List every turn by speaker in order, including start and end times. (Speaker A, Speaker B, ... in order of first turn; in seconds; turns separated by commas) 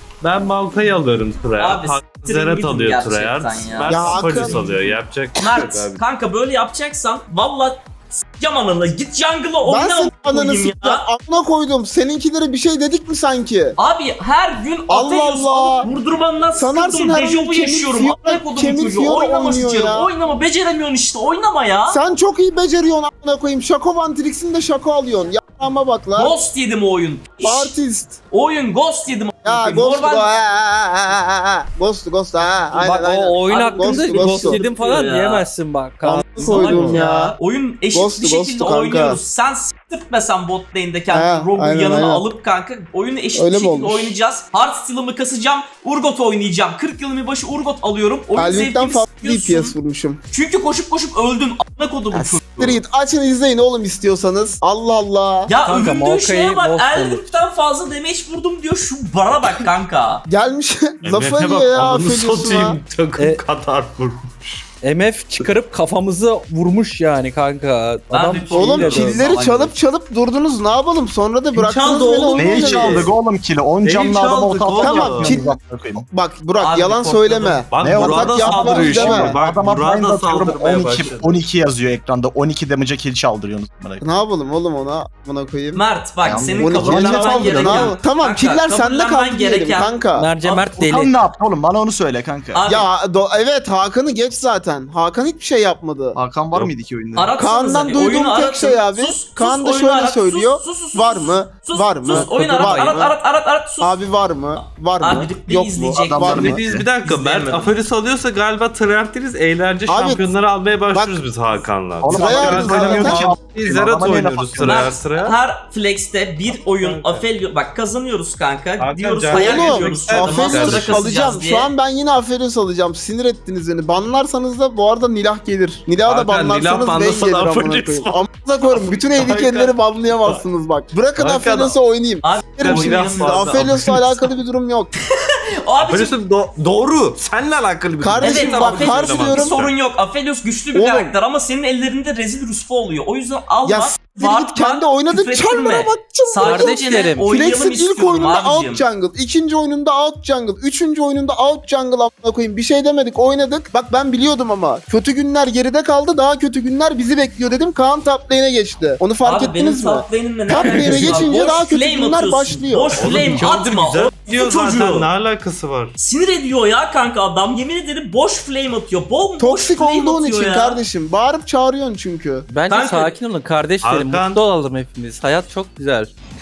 Speaker A: 0.2-6.0, Speaker B: 1.6-4.6, Speaker C: 3.9-5.0, Speaker B: 5.4-11.1, Speaker C: 9.7-13.8, Speaker B: 13.8-22.0, Speaker C: 14.9-15.9, Speaker C: 16.6-20.1, Speaker C: 21.9-26.3, Speaker B: 26.2-27.8, Speaker C: 27.4-28.2, Speaker B: 28.3-30.3, Speaker C: 29.4-34.6, Speaker D: 32.8-37.0, Speaker B: 33.5-35.5, Speaker C: 36.0-37.4, Speaker B: 36.4-49.8, Speaker C: 37.9-39.2, Speaker C: 41.1-42.2, Speaker C: 43.3-44.2, Speaker C: 48.4-50.2, Speaker B: 50.3-52.8, Speaker C: 52.1-55.5, Speaker B: 55.5-60.2, Speaker D: 55.6-57.4, Speaker C: 60.3-62.8, Speaker A: 61.0-64.7, Speaker D: 64.8-69.2, Speaker B: 68.1-69.8, Speaker C: 68.5-73.1, Speaker A: 71.5-73.1, Speaker E: 72.4-76.1, Speaker A: 73.8-75.4, Speaker C: 74.8-75.6, Speaker C: 76.1-79.3, Speaker B: 76.6-77.7, Speaker A: 77.7-81.4, Speaker E: 77.8-84.0, Speaker B: 78.5-78.8, Speaker C: 84.0-85.8, Speaker B: 85.7-90.6, Speaker E: 86.2-88.0, Speaker C: 86.6-90.3, Speaker D: 90.2-91.2, Speaker E: 90.8-92.6, Speaker B: 92.5-92.9, Speaker C: 92.7-96.2, Speaker E: 96.2-97.3, Speaker B: 97.2-104.0, Speaker C: 97.4-103.1, Speaker D: 102.1-103.1, Speaker C: 103.8-106.5, Speaker B: 104.6-107.8, Speaker E: 106.0-106.8, Speaker A: 106.2-115.4, Speaker C: 109.9-110.3, Speaker C: 110.9-111.2, Speaker E: 112.0-115.0, Speaker C: 112.1-113.3, Speaker B: 114.6-121.7, Speaker A: 116.6-117.2, Speaker A: 118.8-121.0, Speaker C: 119.3-134.9, Speaker A: 126.0-130.4, Speaker A: 131.2-131.8, Speaker B: 132.2-133.7, Speaker A: 132.6-134.3, Speaker B: 135.0-136.2, Speaker A: 135.8-139.7, Speaker C: 138.0-139.6, Speaker B: 138.2-148.8, Speaker C: 140.7-141.1, Speaker C: 143.7-163.3, Speaker D: 146.4-147.3, Speaker B: 159.2-165.1, Speaker D: 160.6-161.2, Speaker A: 163.0-165.9, Speaker B: 166.0-170.8, Speaker C: 169.4-172.5, Speaker D: 172.5-176.1, Speaker B: 172.7-173.2, Speaker A: 173.8-174.4